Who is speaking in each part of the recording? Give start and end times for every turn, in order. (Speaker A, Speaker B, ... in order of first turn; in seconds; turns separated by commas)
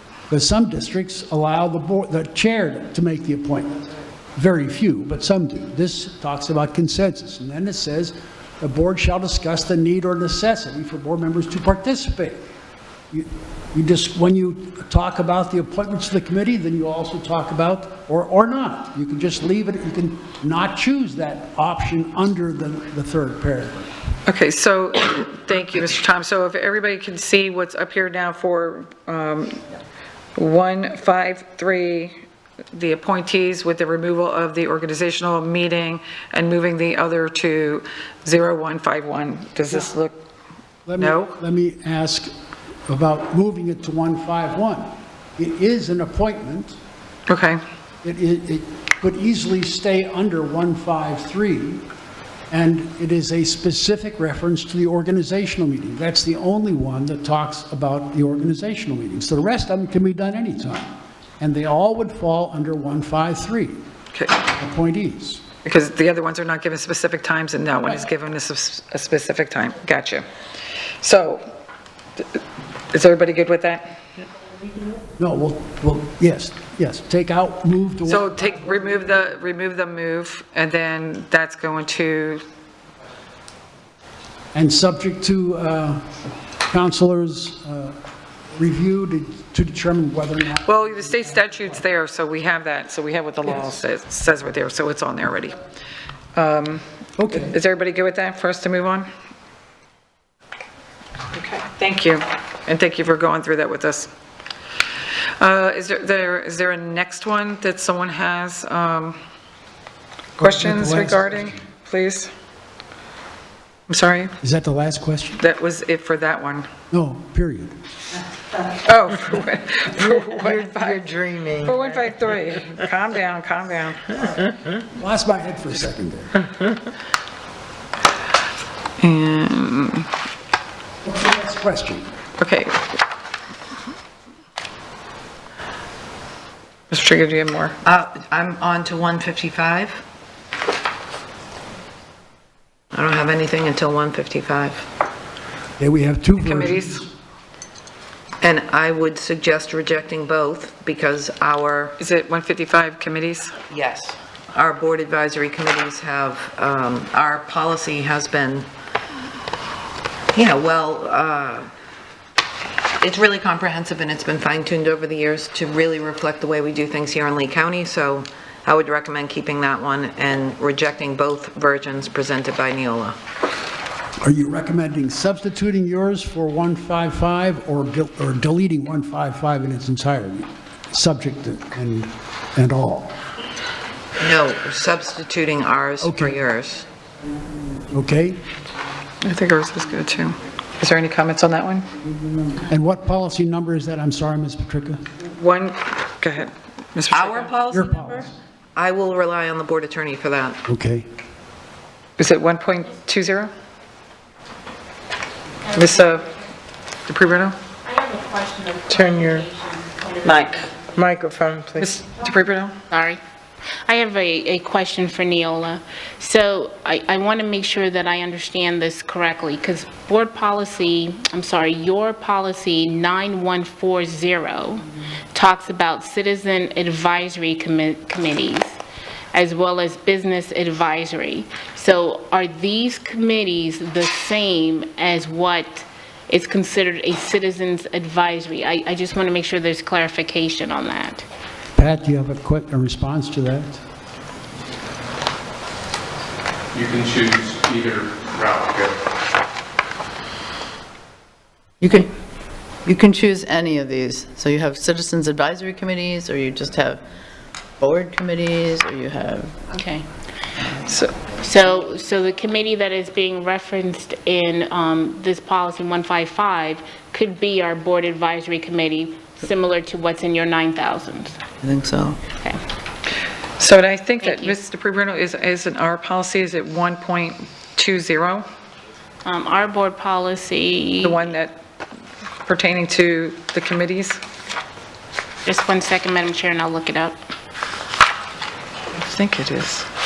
Speaker A: 0.3-3.8, Speaker A: 4.3-12.5, Speaker A: 13.1-23.9, Speaker B: 24.3-29.6, Speaker B: 30.4-32.1, Speaker B: 32.7-40.2, Speaker A: 40.9-42.3, Speaker B: 41.0-41.4, Speaker A: 42.9-46.8, Speaker B: 47.3-47.6, Speaker A: 48.0-51.9, Speaker A: 52.5-63.8, Speaker A: 64.6-65.5, Speaker B: 65.7-70.3, Speaker B: 71.0-71.4, Speaker B: 72.9-73.9, Speaker A: 75.2-78.3, Speaker B: 78.0-82.4, Speaker A: 84.5-86.1, Speaker A: 86.7-88.0, Speaker A: 88.5-91.8, Speaker B: 90.7-95.6, Speaker B: 96.4-99.1, Speaker A: 97.2-97.5, Speaker B: 101.3-104.1, Speaker B: 105.4-109.2, Speaker B: 110.4-112.3, Speaker A: 110.4-111.5, Speaker B: 113.9-114.3, Speaker A: 114.4-115.4, Speaker B: 115.4-116.7, Speaker A: 116.9-117.8, Speaker B: 118.8-124.3, Speaker C: 120.0-121.7, Speaker A: 124.9-126.5, Speaker B: 129.0-130.1, Speaker A: 131.1-132.1, Speaker B: 132.4-132.8, Speaker B: 136.9-137.8, Speaker D: 137.8-140.0, Speaker D: 142.9-144.9, Speaker A: 145.8-147.1, Speaker B: 146.4-147.0, Speaker D: 148.4-151.9, Speaker B: 152.0-153.6, Speaker D: 153.7-158.7, Speaker D: 160.3-161.7, Speaker D: 163.0-173.2, Speaker A: 174.2-183.2, Speaker D: 184.2-186.8, Speaker A: 186.0-186.4, Speaker A: 187.9-188.4, Speaker B: 189.2-191.9, Speaker A: 192.5-195.1, Speaker B: 195.3-197.5, Speaker D: 197.1-198.0, Speaker A: 197.7-198.3, Speaker D: 198.8-200.6, Speaker A: 200.7-201.1, Speaker B: 202.2-203.5, Speaker B: 205.7-206.3, Speaker B: 207.1-207.6, Speaker E: 207.8-210.3, Speaker C: 208.9-209.5, Speaker B: 210.3-210.6, Speaker C: 210.9-211.9, Speaker B: 211.8-212.8, Speaker E: 212.9-213.2, Speaker E: 213.9-228.8, Speaker E: 229.3-241.2, Speaker A: 241.8-243.8, Speaker F: 246.7-249.0, Speaker G: 251.8-252.1, Speaker G: 252.8-257.0, Speaker G: 257.8-259.6, Speaker E: 259.7-260.1, Speaker B: 260.8-261.3, Speaker E: 261.4-271.4, Speaker G: 271.6-272.2, Speaker B: 273.6-278.4, Speaker E: 274.2-274.6, Speaker E: 279.2-281.2, Speaker B: 281.0-281.6, Speaker B: 282.5-284.2, Speaker E: 285.4-287.2, Speaker B: 288.9-289.9